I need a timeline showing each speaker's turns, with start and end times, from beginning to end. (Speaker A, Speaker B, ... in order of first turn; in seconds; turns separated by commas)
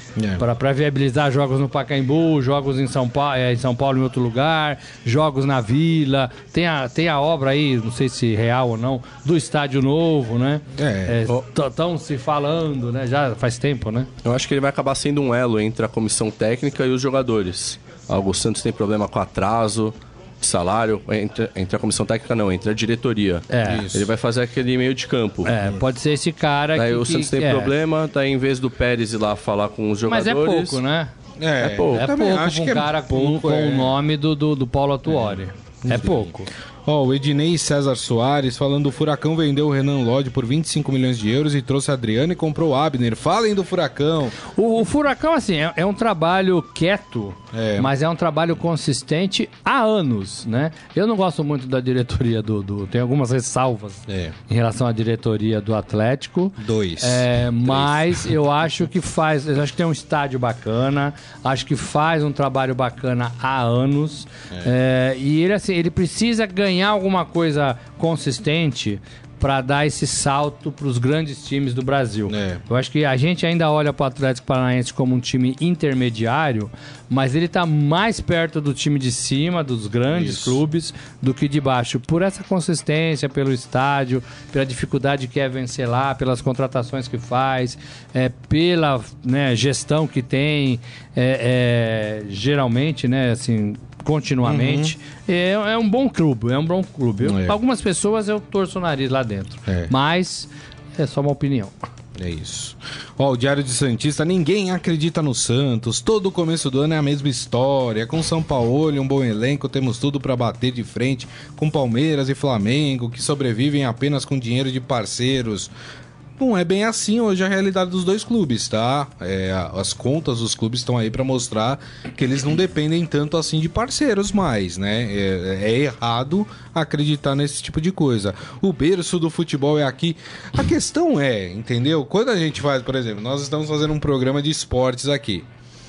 Speaker A: 0.2-0.4, Speaker B: 0.4-14.1, Speaker A: 10.7-11.2, Speaker C: 14.2-25.5, Speaker B: 23.5-23.9, Speaker A: 23.7-24.1, Speaker B: 25.4-27.7, Speaker C: 26.8-30.8, Speaker B: 30.1-31.1, Speaker A: 31.4-34.0, Speaker C: 31.6-32.1, Speaker B: 31.9-36.5, Speaker A: 35.1-36.3, Speaker A: 36.9-44.4, Speaker B: 44.5-101.8, Speaker A: 47.5-47.9, Speaker A: 54.1-54.3, Speaker A: 56.6-58.3, Speaker A: 72.3-72.6, Speaker A: 80.1-80.6, Speaker A: 94.5-95.0, Speaker A: 97.2-97.6, Speaker A: 102.2-115.7, Speaker A: 116.4-135.5